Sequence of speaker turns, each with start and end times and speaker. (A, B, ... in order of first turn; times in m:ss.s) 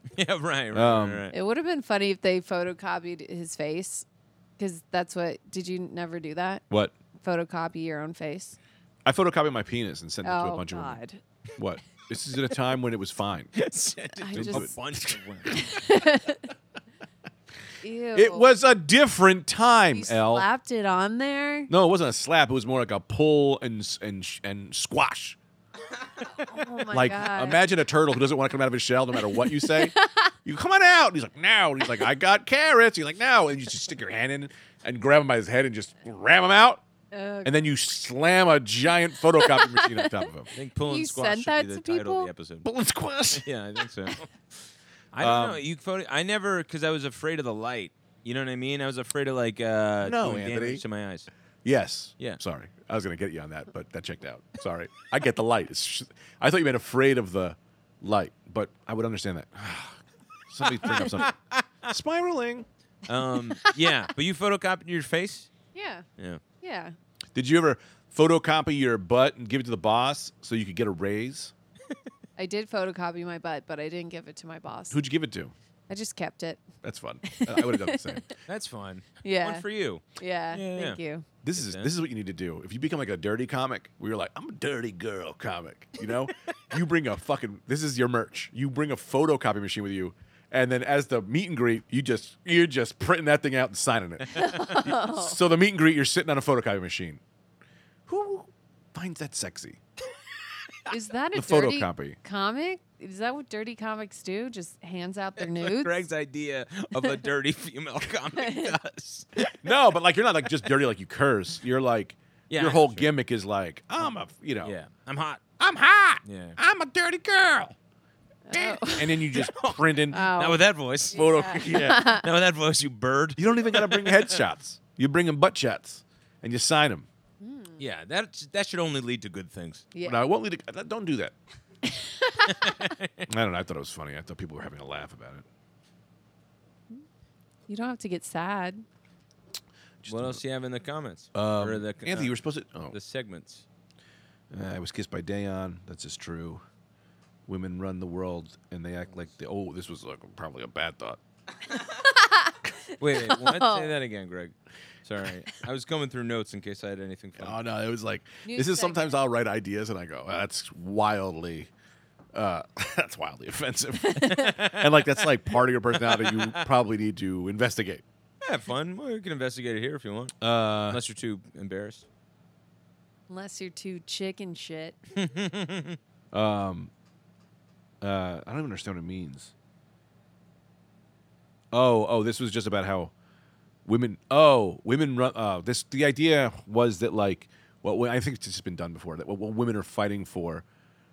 0:00.1-0:01.3 A
0:00.7-0:01.3 B
0:01.3-0:04.0 C
0:04.6-0:06.6 C
0:07.2-0:08.6 C
0:09.0-0:11.0 B
0:10.2-0:11.2 C
0:11.6-0:13.5 B
0:13.5-0:15.6 A
0:14.2-0:14.7 C
0:14.3-0:15.6 B
0:15.5-0:16.4 C
0:17.8-0:18.5 C
0:18.1-0:20.4 B
0:19.9-0:21.7 C
0:21.7-0:25.4 B
0:26.4-0:27.6 C
0:26.9-0:29.9 B
0:29.3-0:30.3 C
0:30.4-0:36.8 B
0:37.1-0:37.7 C
0:37.4-0:40.5 B
0:39.4-0:40.2 C
0:40.5-0:42.7 A
0:40.8-0:42.3 C
0:42.6-0:43.5 B
0:43.3-0:44.5 A
0:45.1-0:51.3 A
0:45.2-0:45.6 B
0:50.0-0:50.8 B
0:51.6-1:00.0 B
1:00.5-1:01.3 B
1:00.6-1:01.6 A
1:01.9-1:02.6 B
1:03.1-1:05.5 A
1:05.7-1:06.0 C
1:06.6-1:06.9 C
1:07.3-1:11.5 B
1:12.4-1:15.0 C
1:14.9-1:15.5 B
1:15.9-1:16.7 C
1:16.8-1:18.3 B
1:17.2-1:18.2 C
1:18.5-1:21.0 A
1:19.2-1:21.2 C
1:21.4-1:37.2 B
1:21.5-1:21.9 A
1:34.3-1:35.4 C
1:38.1-1:39.8 B
1:40.9-1:45.9 C
1:41.3-1:42.2 B
1:45.4-1:49.6 A
1:48.4-1:48.7 C
1:49.6-1:54.7 B
1:52.5-1:53.1 A
1:54.6-1:55.4 A
1:55.6-1:57.7 B
1:56.2-1:56.6 A
1:58.5-1:59.3 C
1:58.6-2:00.3 B
1:59.3-2:04.4 A
2:00.1-2:02.2 C
2:01.1-2:02.2 B
2:03.4-2:07.1 B
2:07.4-2:07.8 C
2:07.8-2:09.8 A
2:09.9-2:10.2 C
2:10.0-2:11.3 B
2:11.9-2:12.7 C
2:12.5-2:13.2 A
2:13.3-2:15.4 B
2:17.7-2:18.8 C
2:20.0-2:20.4 B
2:20.1-2:22.4 A
2:21.3-2:23.0 B
2:22.9-2:23.6 A
2:24.5-2:26.6 B
2:27.5-2:31.2 B
2:31.8-2:33.9 C
2:33.0-2:34.5 A
2:35.0-2:37.6 A
2:37.4-2:41.7 B
2:38.4-2:39.1 C
2:42.3-2:48.0 B
2:44.2-2:44.4 C
2:44.2-2:45.1 A
2:46.0-2:46.6 A
2:48.4-2:52.0 A
2:50.4-2:51.0 B
2:53.3-2:55.0 C
2:55.1-2:56.0 A
2:56.3-2:56.9 B
2:58.0-2:59.5 B
3:01.7-3:03.1 B
3:03.8-3:10.6 B